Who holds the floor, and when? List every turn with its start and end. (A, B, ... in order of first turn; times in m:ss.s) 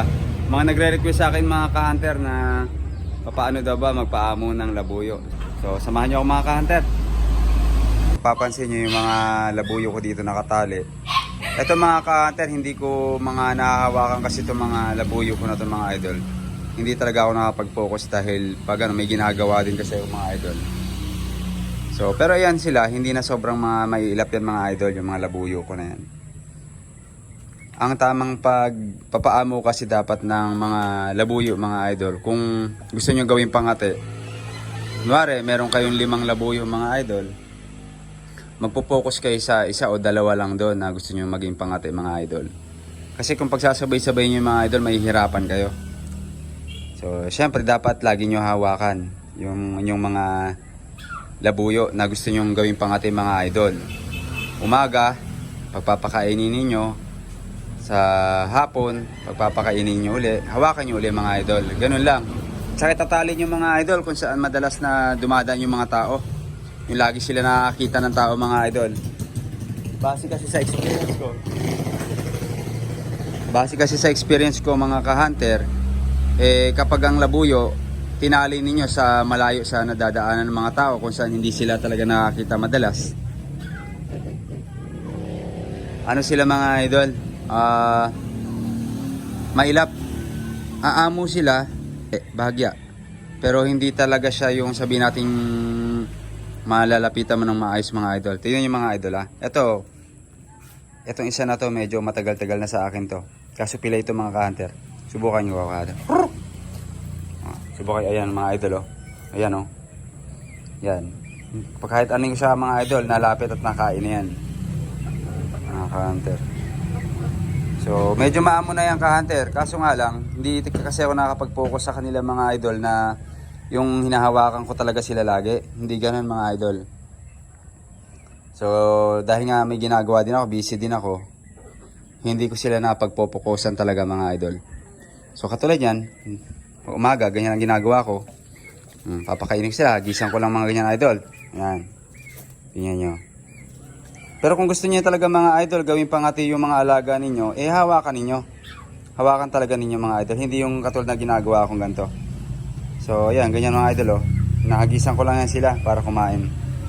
0:00.5-0:02.6 A
0:03.2-0:06.9 A
0:08.2-0:10.8 A
0:11.6-0:16.2 A
0:16.8-0:20.6 A
0:21.9-0:26.0 A
0:27.8-0:33.9 A
0:35.0-0:37.3 A
0:38.6-0:42.5 A
0:43.2-0:45.7 A
0:47.0-0:50.5 A
0:51.4-0:53.8 A
0:54.6-0:55.2 A
0:55.7-0:57.0 A
0:57.8-1:06.2 A
1:06.9-1:08.9 A
1:10.0-1:11.4 A
1:13.5-1:15.6 A
1:16.4-1:23.1 A
1:26.1-1:28.1 A
1:29.6-1:29.9 A
1:30.8-1:32.7 A
1:33.4-1:36.1 A
1:36.7-1:39.8 A
1:41.1-1:46.3 A
1:47.4-1:49.7 A
1:50.8-1:54.3 A
1:55.7-1:56.4 A
1:57.8-2:03.0 A
2:03.7-2:06.8 A
2:08.6-2:11.2 A
2:12.2-2:14.6 A
2:15.4-2:18.2 A
2:19.1-2:21.8 A
2:22.7-2:23.2 A
2:24.4-2:28.4 A
2:29.2-2:32.1 A
2:33.0-2:36.5 A